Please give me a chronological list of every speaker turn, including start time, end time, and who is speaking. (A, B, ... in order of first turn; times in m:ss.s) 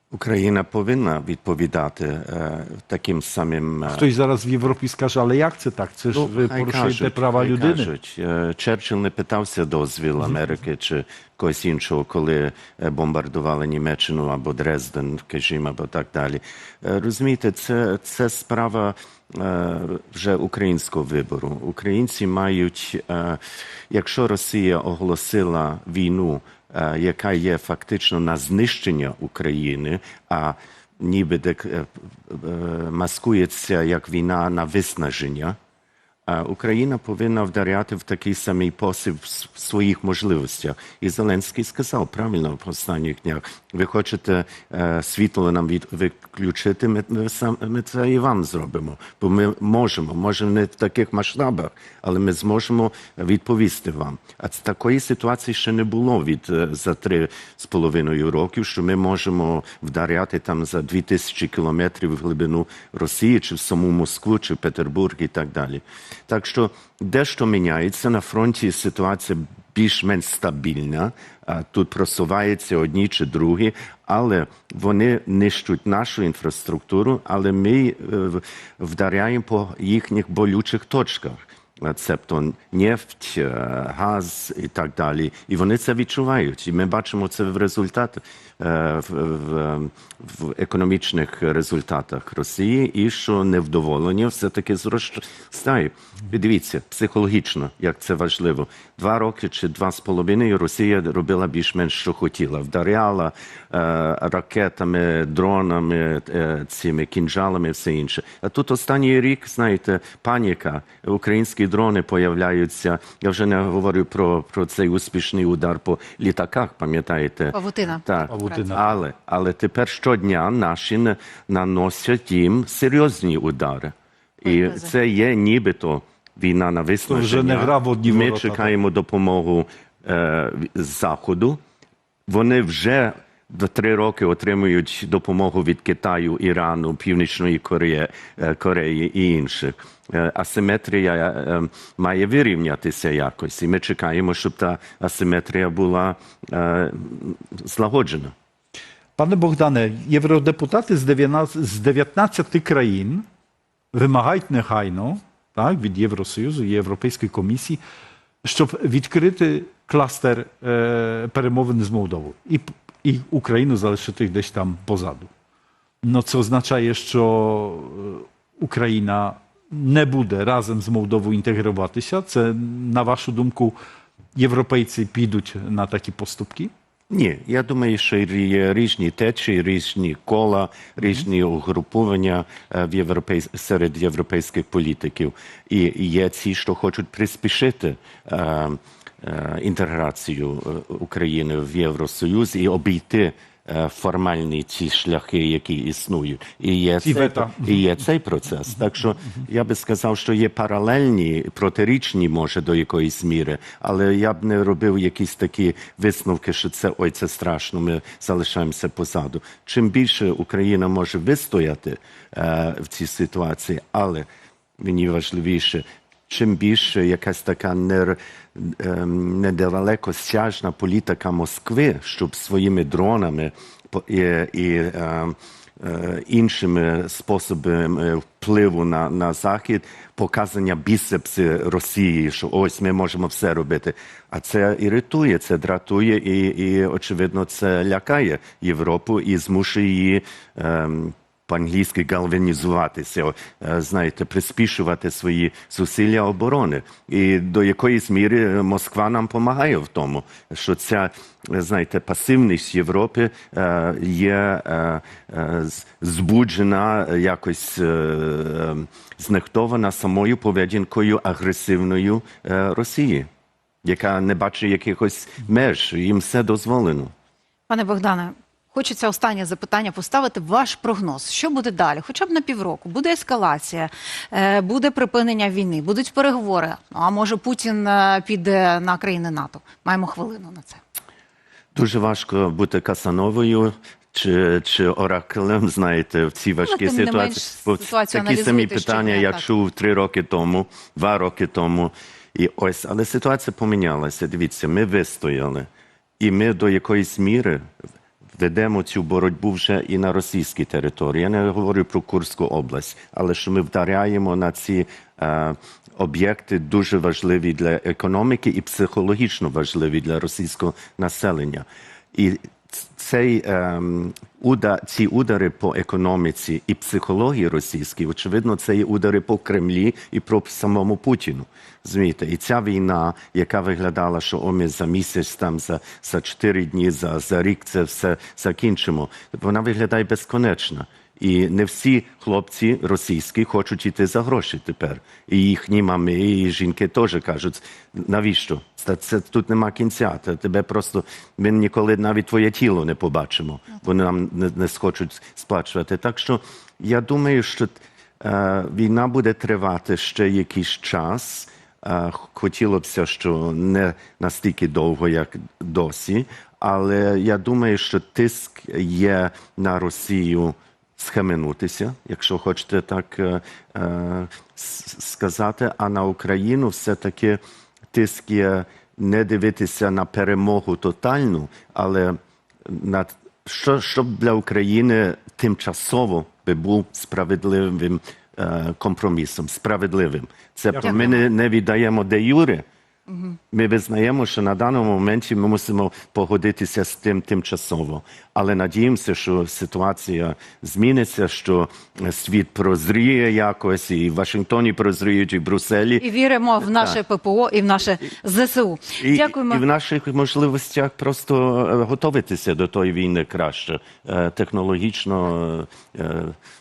0:00.1-0:04.1 A
0:03.9-0:07.9 B
0:06.1-0:23.4 A
0:23.9-0:35.6 A
0:36.3-2:11.6 A
1:57.5-1:58.8 C
1:58.3-1:58.9 B
2:04.4-2:04.9 C
2:07.1-2:08.7 B
2:12.3-2:28.3 A
2:29.2-2:33.2 B
2:33.9-2:37.8 B
2:38.4-2:45.3 B
2:46.0-2:53.8 B
2:54.4-2:56.7 B
2:57.1-3:34.3 A
3:17.0-3:17.8 B
3:34.8-4:23.3 A
4:23.8-4:27.1 A
4:27.7-4:40.8 C
4:41.7-4:55.7 A
4:46.6-4:49.5 C
4:56.2-4:57.6 A
4:58.4-6:07.4 A
6:07.9-6:22.6 A
6:20.8-6:21.2 C
6:23.1-6:23.4 C
6:23.5-6:36.0 A
6:36.0-6:39.6 C
6:36.7-6:37.0 A
6:39.0-6:46.4 A